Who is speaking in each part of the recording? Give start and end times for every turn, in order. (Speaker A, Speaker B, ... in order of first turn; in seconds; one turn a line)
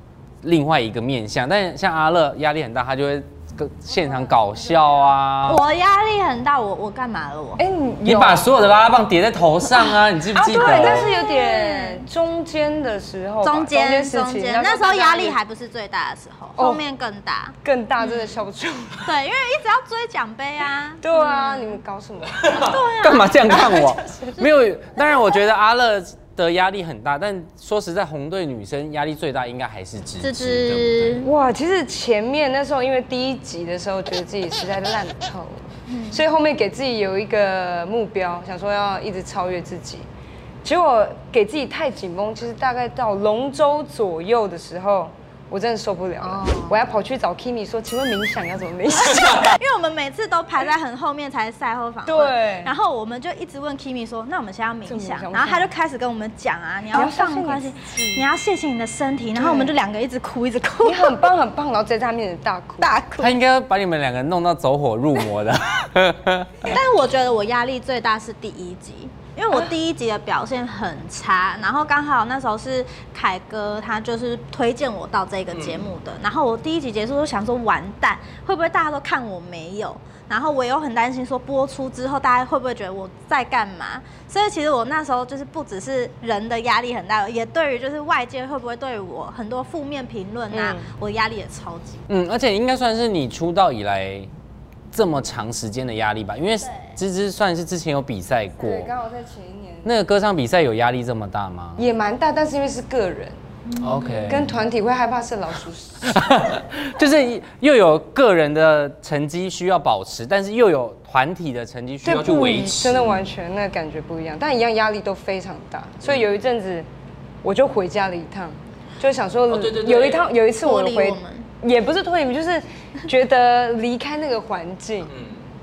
Speaker A: 0.4-5.6
Speaker B: 4.3-4.8
Speaker C: 5.5-7.6
Speaker B: 7.6-8.5
Speaker A: 8.1-11.1
Speaker B: 10.3-15.4
Speaker C: 10.5-12.1
Speaker C: 13.4-18.4
Speaker B: 16.6-16.9
Speaker B: 17.6-19.2
Speaker C: 19.1-21.8
Speaker B: 21.0-22.4
Speaker C: 22.4-24.5
Speaker A: 22.6-31.2
Speaker B: 23.5-24.3
Speaker C: 30.2-31.3
Speaker B: 31.2-40.0
Speaker C: 35.9-36.2
Speaker B: 40.6-49.6
Speaker C: 46.2-46.8
Speaker C: 48.9-61.2
Speaker B: 52.0-52.8
Speaker B: 54.9-55.7
Speaker B: 56.9-58.3
Speaker B: 59.4-59.7
Speaker B: 60.8-62.9
Speaker C: 62.8-63.4
Speaker A: 63.2-66.8
Speaker C: 66.6-92.0
Speaker B: 90.5-90.9
Speaker A: 92.1-94.3
Speaker A: 94.9-98.9
Speaker C: 96.6-97.0
Speaker B: 98.6-99.9
Speaker A: 99.8-101.8
Speaker B: 101.8-103.3
Speaker C: 103.7-104.3
Speaker A: 103.8-104.5
Speaker B: 104.3-106.2
Speaker A: 106.0-113.3
Speaker B: 112.0-116.9
Speaker B: 117.4-125.1
Speaker A: 119.5-120.3
Speaker C: 120.6-121.5
Speaker A: 125.1-125.4